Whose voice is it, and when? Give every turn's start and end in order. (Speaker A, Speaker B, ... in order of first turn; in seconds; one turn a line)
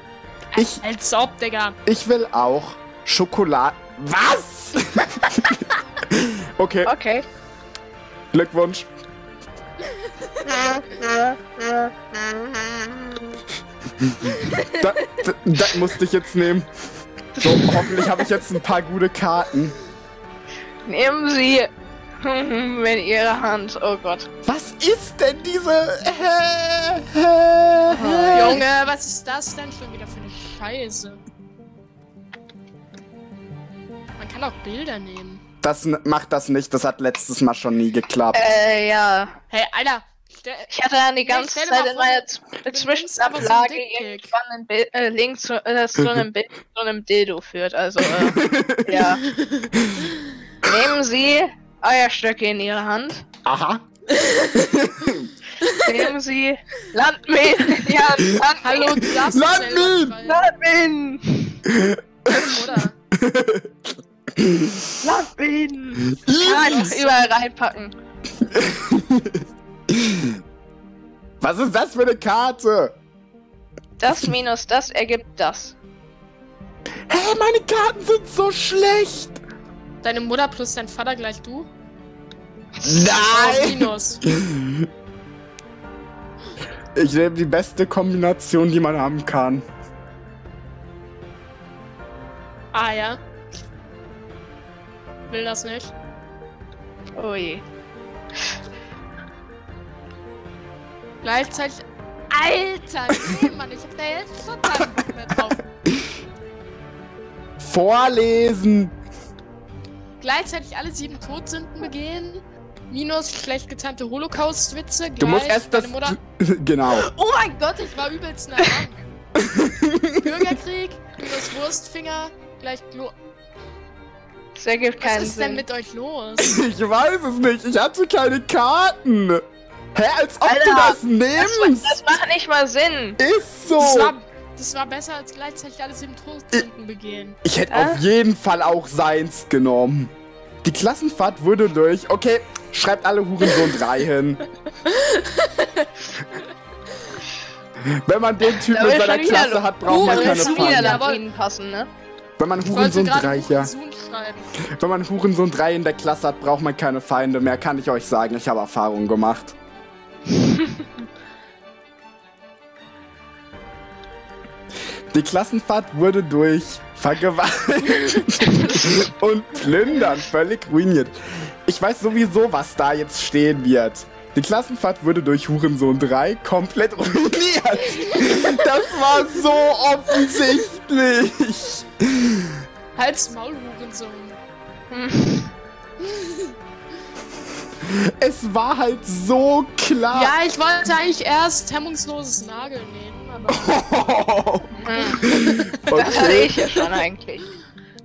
Speaker A: 0.6-0.8
Speaker B: 0.6-1.8
Speaker A: 1.9-6.9
Speaker C: 6.9-7.2
Speaker A: 8.3-8.9
Speaker C: 10.5-13.1
Speaker A: 14.0-16.7
Speaker B: 14.4-14.8
Speaker C: 17.4-18.2
Speaker A: 17.4-19.8
Speaker C: 20.9-21.7
Speaker C: 22.2-24.3
Speaker A: 24.4-28.6
Speaker C: 27.9-28.6
Speaker B: 28.3-31.2
Speaker B: 34.2-35.4
Speaker A: 35.6-38.5
Speaker C: 38.3-39.4
Speaker B: 39.5-44.3
Speaker C: 40.7-49.2
Speaker A: 48.2-49.0
Speaker B: 49.0-50.1
Speaker A: 49.8-50.0
Speaker C: 50.6-53.2
Speaker A: 53.5-53.8
Speaker B: 54.1-54.8
Speaker A: 54.5-55.3
Speaker B: 55.6-56.1
Speaker C: 55.7-59.0
Speaker B: 58.6-60.4
Speaker A: 59.0-60.2
Speaker C: 60.2-61.6
Speaker A: 61.7-62.6
Speaker B: 62.3-63.0
Speaker A: 63.1-63.7
Speaker A: 64.3-65.0
Speaker C: 65.0-68.0
Speaker A: 66.1-66.9
Speaker B: 66.4-67.1
Speaker A: 68.4-70.4
Speaker A: 71.4-73.0
Speaker C: 74.0-75.8
Speaker A: 77.1-79.4
Speaker B: 80.0-81.7
Speaker C: 82.8-83.2
Speaker A: 82.8-84.9
Speaker B: 83.1-84.2
Speaker A: 87.0-89.7
Speaker B: 92.7-93.2
Speaker B: 95.3-95.9
Speaker C: 97.2-97.6
Speaker B: 101.2-105.6
Speaker A: 107.6-109.0
Speaker B: 110.2-116.2
Speaker A: 115.2-117.1
Speaker B: 116.9-119.0
Speaker A: 119.4-120.3
Speaker B: 120.2-123.1
Speaker C: 124.5-125.6
Speaker B: 125.0-126.6
Speaker A: 126.4-129.4
Speaker A: 129.9-132.0
Speaker C: 130.4-133.2
Speaker A: 133.2-134.1
Speaker B: 133.8-137.4
Speaker A: 137.4-140.1
Speaker C: 137.7-138.0
Speaker A: 140.6-144.4
Speaker B: 144.8-146.4
Speaker A: 147.8-151.0
Speaker C: 148.7-151.9
Speaker B: 149.9-151.2
Speaker A: 152.4-153.7
Speaker B: 152.7-154.5
Speaker A: 154.6-159.6
Speaker C: 160.4-160.8
Speaker A: 165.1-182.5
Speaker C: 168.5-169.0
Speaker B: 183.0-184.4
Speaker C: 184.9-185.5
Speaker B: 186.0-186.5
Speaker A: 187.8-190.3
Speaker B: 190.1-193.8
Speaker A: 193.5-196.9
Speaker C: 194.8-195.3
Speaker B: 195.1-195.8
Speaker C: 195.9-197.5